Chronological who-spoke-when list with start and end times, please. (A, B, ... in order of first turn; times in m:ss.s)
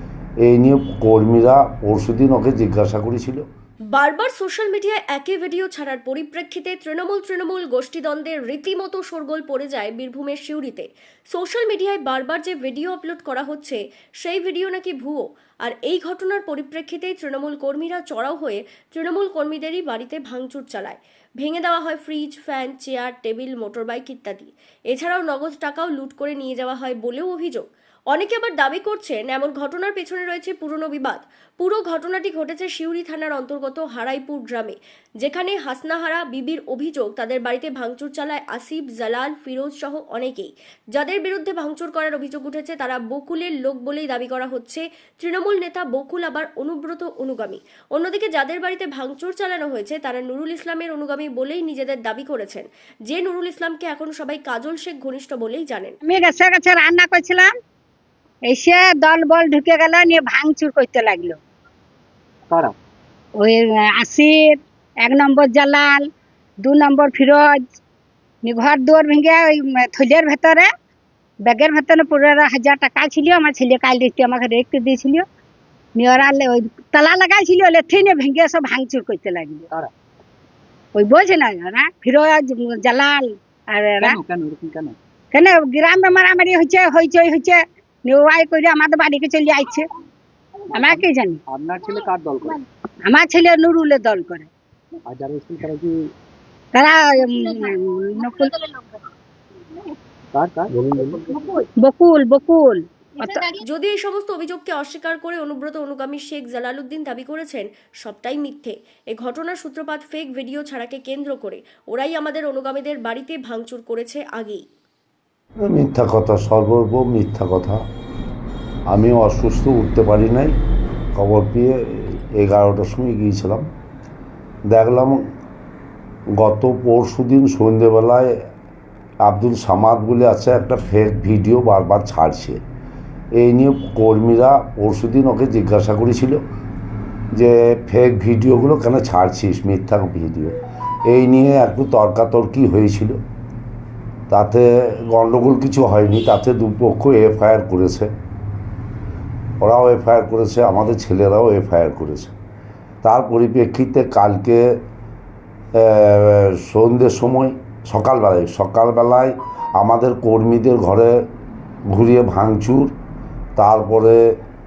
0:00.4-0:03.4 A
0:03.9-0:56.0 B
0:56.0-0:57.5 C
0:58.5-1:01.4 C
1:02.5-1:02.8 D
1:03.4-1:06.0 C
1:06.6-1:07.7 C
1:08.4-1:10.7 C
1:11.5-1:15.2 C
1:16.0-1:19.7 C
1:21.0-1:24.2 C
1:24.0-1:25.0 D
1:25.3-1:29.9 C
1:30.8-1:31.4 C
1:30.9-1:32.7 D
1:33.1-1:34.5 C
1:35.1-1:36.1 D
1:36.8-1:38.7 C
1:40.3-1:41.4 D
1:41.8-1:43.6 C
1:43.6-1:54.6 B
1:55.6-1:57.8 A
1:58.9-2:00.6 A
2:01.2-2:03.7 A
2:04.7-2:05.2 A
2:06.4-2:08.3 A
2:09.2-2:12.6 A
2:13.4-2:16.4 A
2:17.4-2:23.2 A
2:24.3-2:28.1 A
2:29.6-2:32.4 A
2:33.0-2:34.8 A
2:35.8-2:41.2 A
2:41.9-2:42.9 A
2:43.6-2:44.3 A